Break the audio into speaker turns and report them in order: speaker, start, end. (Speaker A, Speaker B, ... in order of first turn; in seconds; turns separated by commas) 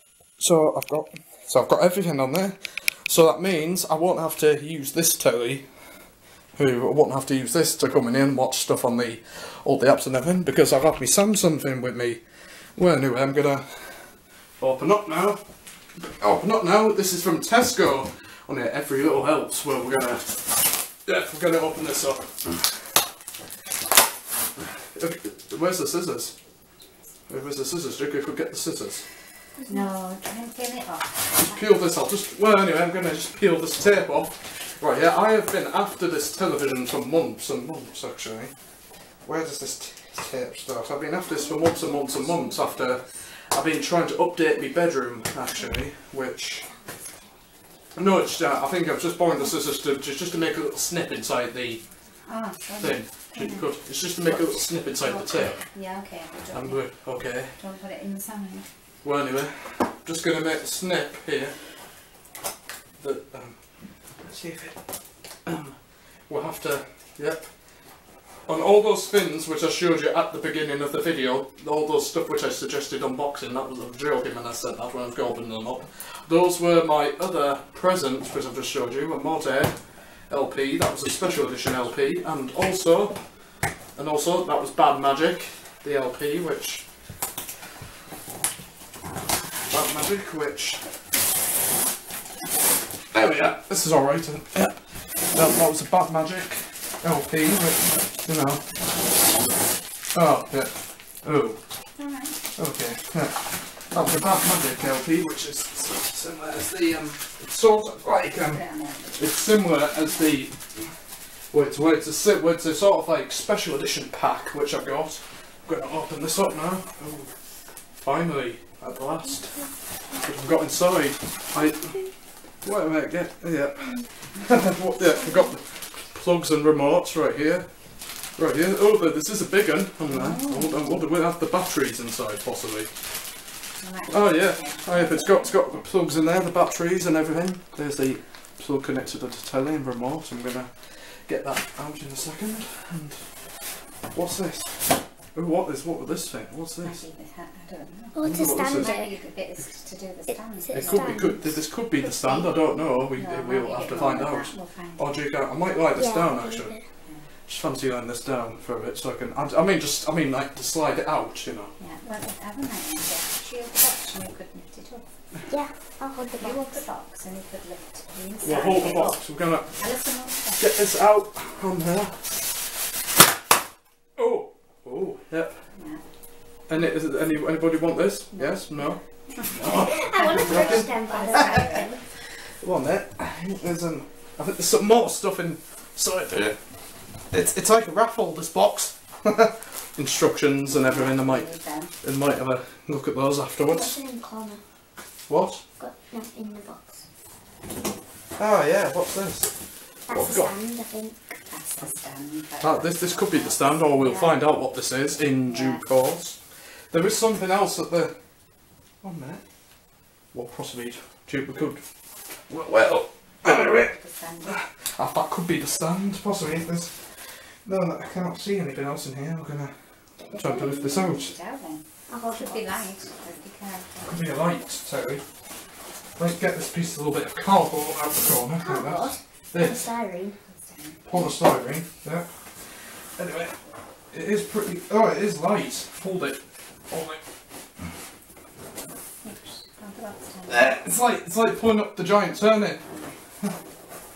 Speaker A: 0.4-5.7, Speaker A: 6.6-12.2, Speaker A: 12.8-15.4, Speaker A: 16.2-22.6, Speaker A: 24.8-26.4, Speaker A: 27.3-29.1, Speaker B: 29.7-31.3, Speaker A: 31.4-38.5, Speaker A: 39.2-46.7, Speaker A: 48.0-51.9, Speaker B: 52.3-53.7, Speaker A: 52.8-55.6, Speaker B: 55.0-56.9, Speaker A: 56.5-57.6, Speaker B: 57.6-58.7, Speaker A: 59.0-61.6, Speaker A: 63.0-64.8, Speaker A: 65.5-67.5, Speaker A: 68.5-83.2, Speaker A: 84.0-86.9, Speaker A: 89.7-90.8, Speaker A: 93.1-98.7, Speaker A: 100.1-101.6, Speaker B: 102.0-102.3, Speaker A: 102.5-110.6, Speaker B: 108.5-109.0, Speaker A: 111.5-117.3, Speaker A: 118.0-119.7, Speaker A: 120.2-122.1, Speaker A: 122.6-127.7, Speaker A: 128.4-132.9, Speaker B: 130.1-130.9, Speaker B: 133.8-135.7, Speaker A: 134.1-143.5, Speaker A: 144.1-147.0, Speaker B: 146.8-151.1, Speaker C: 148.2-149.1, Speaker A: 148.2-148.9, Speaker C: 150.3-151.4, Speaker A: 150.7-156.8, Speaker B: 153.2-155.0, Speaker C: 155.9-156.8, Speaker A: 157.5-161.8, Speaker B: 161.8-165.1, Speaker C: 165.5-166.8, Speaker B: 166.4-169.2, Speaker A: 168.4-169.9, Speaker B: 169.8-170.6, Speaker A: 170.6-172.5, Speaker A: 174.2-175.7, Speaker B: 175.8-176.0, Speaker A: 176.7-181.8, Speaker B: 178.3-178.7, Speaker C: 179.7-182.0, Speaker B: 180.1-181.9, Speaker A: 182.6-186.6, Speaker A: 187.2-194.0, Speaker B: 190.8-191.9, Speaker C: 193.6-194.6, Speaker A: 195.3-195.6, Speaker C: 195.8-197.0, Speaker A: 198.4-199.6, Speaker C: 200.1-201.4, Speaker A: 200.1-200.5, Speaker B: 201.5-204.4, Speaker A: 202.6-206.4, Speaker B: 205.5-205.8, Speaker A: 206.9-208.2, Speaker A: 209.0-209.4, Speaker A: 210.3-211.8, Speaker A: 212.5-219.8, Speaker B: 213.5-214.5, Speaker C: 220.2-220.9, Speaker A: 220.3-221.4, Speaker B: 220.9-224.1, Speaker C: 222.1-222.9, Speaker A: 224.0-225.2, Speaker A: 226.2-229.9, Speaker C: 228.5-230.4, Speaker B: 230.5-231.0, Speaker A: 231.1-233.6, Speaker A: 234.1-237.2, Speaker B: 239.2-240.7, Speaker A: 240.5-242.9, Speaker B: 242.9-243.1